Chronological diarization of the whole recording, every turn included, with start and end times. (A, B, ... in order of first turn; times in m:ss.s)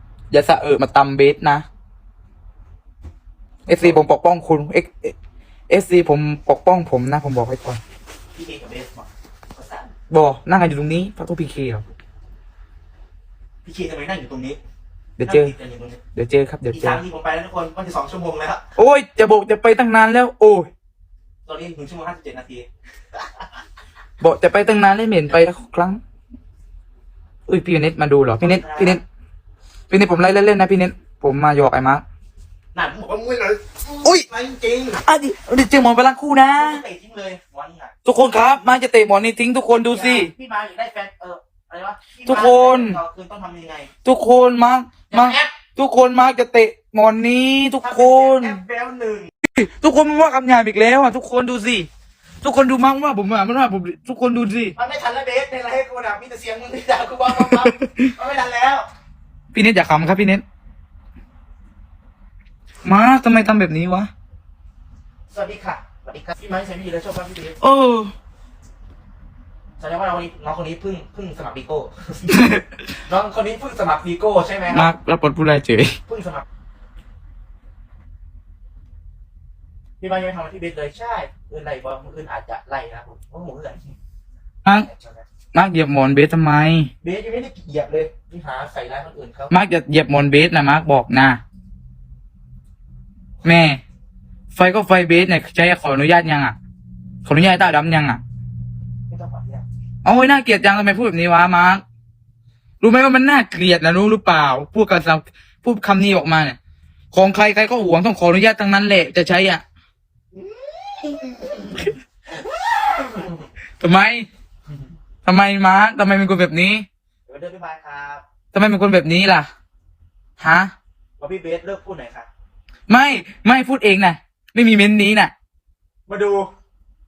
0:00.3-0:01.6 A
0:03.7-0:05.1 A
0:03.8-0:04.0 B
0:05.7-0:07.8 A
0:08.3-0:09.9 B
0:10.1-0:11.8 A
0:13.6-0:14.6 B
0:15.2-0:15.5 A
0:15.2-0:16.0 B
0:16.1-0:17.0 A
0:16.7-0:18.6 B
0:18.8-0:20.7 A
0:21.4-0:22.6 B
0:24.2-0:26.0 A
0:27.5-0:29.0 A
0:28.4-0:29.0 B
0:29.9-0:32.0 A
0:32.7-0:35.0 B
0:35.0-0:36.8 A
0:36.6-0:37.9 B
0:38.0-0:40.3 A
0:39.9-0:43.9 B
0:42.2-0:43.0 A
0:44.0-0:48.6 A
0:45.1-0:45.6 B
0:47.8-0:49.3 B
0:49.5-0:51.9 A
0:52.4-0:54.7 A
0:54.8-0:58.9 B
0:57.3-0:58.1 A
0:59.5-1:00.4 A
1:02.8-1:04.1 A
1:05.3-1:07.6 B
1:07.6-1:08.1 A
1:09.8-1:12.3 B
1:12.3-1:12.6 A
1:13.1-1:14.9 B
1:14.7-1:16.0 A
1:16.1-1:16.4 B
1:20.0-1:23.9 B
1:24.8-1:25.3 B
1:25.5-1:26.9 A
1:27.0-1:29.5 B
1:29.5-1:31.4 A
1:33.4-1:33.8 A
1:34.5-1:36.6 A
1:37.2-1:38.2 A
1:39.1-1:39.6 B
1:40.0-1:41.8 A
1:42.8-1:46.6 A
1:47.1-1:49.6 A
1:50.4-1:51.8 B
1:52.8-1:53.4 B
1:53.8-1:54.3 A
1:55.2-1:56.8 A
1:57.2-1:58.2 B
1:58.5-1:59.5 A
2:00.4-2:00.7 A
2:01.2-2:02.3 B
2:02.9-2:05.3 A
2:06.1-2:06.5 B